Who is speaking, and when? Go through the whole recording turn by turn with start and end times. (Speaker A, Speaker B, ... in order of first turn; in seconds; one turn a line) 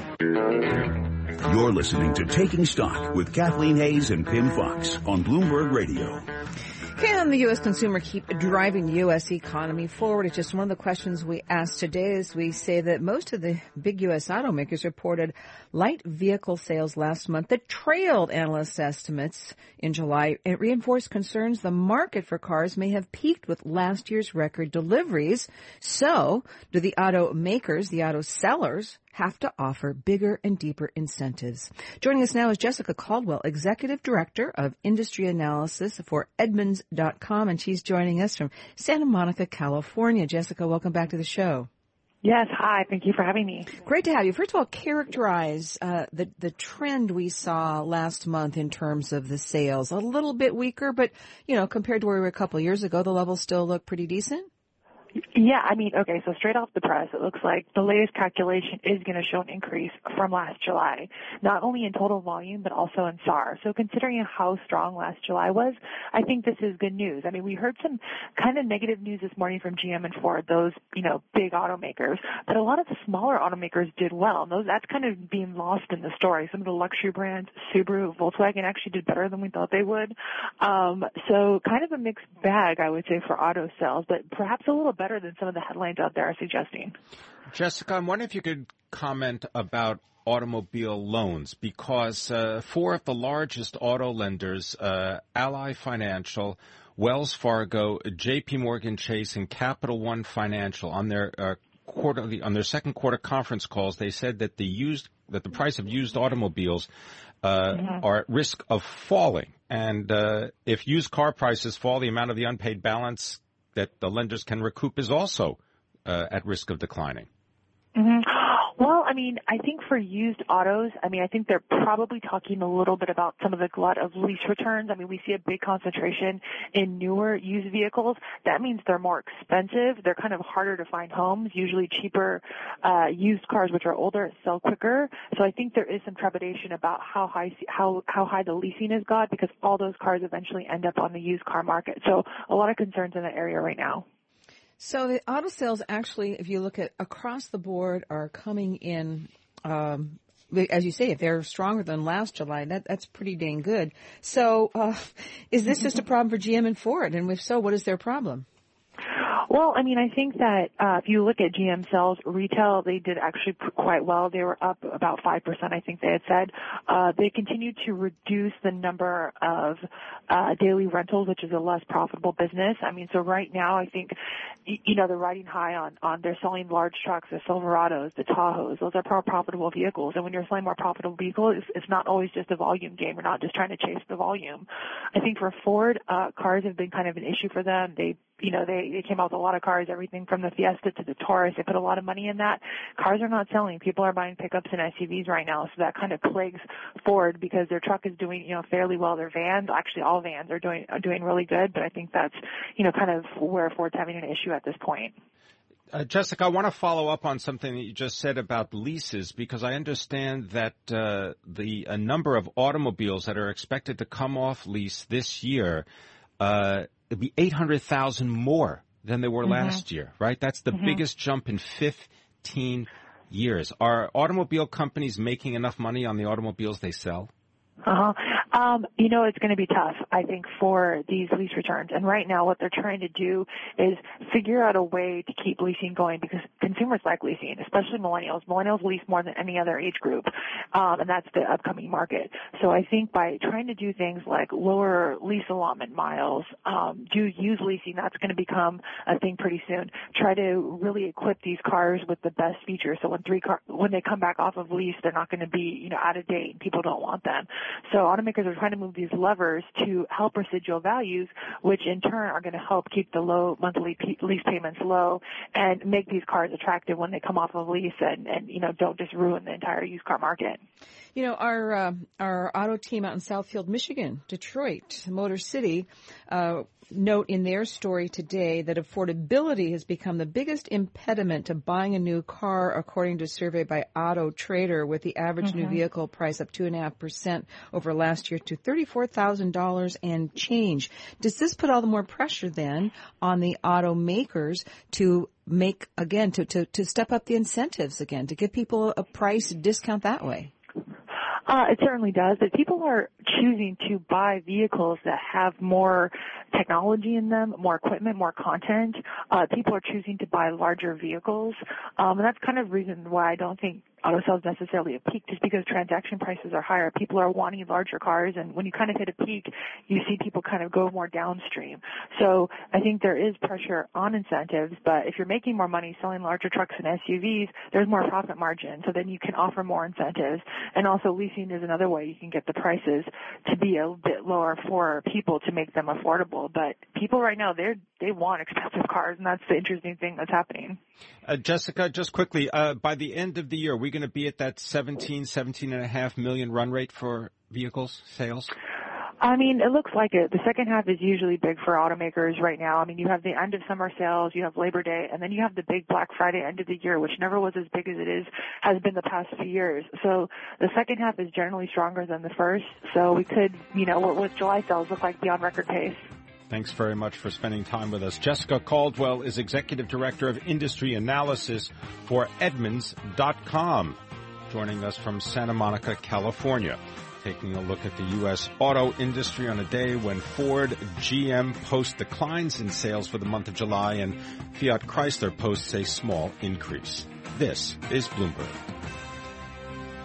Speaker A: 0.6-6.2
Speaker B: 7.0-41.7
Speaker C: 42.2-43.7
Speaker B: 43.8-54.5
Speaker C: 55.3-86.9
Speaker D: 87.5-106.9
Speaker D: 107.4-117.3
Speaker C: 117.9-144.0
Speaker B: 144.8-158.4
Speaker C: 159.2-174.1
Speaker C: 174.7-205.1
Speaker D: 205.9-215.8
Speaker D: 216.4-227.3
Speaker C: 219.4-219.8
Speaker C: 220.7-221.0
Speaker C: 227.8-270.6
Speaker B: 271.1-300.5
Speaker C: 301.5-340.8
Speaker D: 341.2-348.5
Speaker C: 349.2-366.0
Speaker D: 366.5-374.0
Speaker D: 374.5-388.6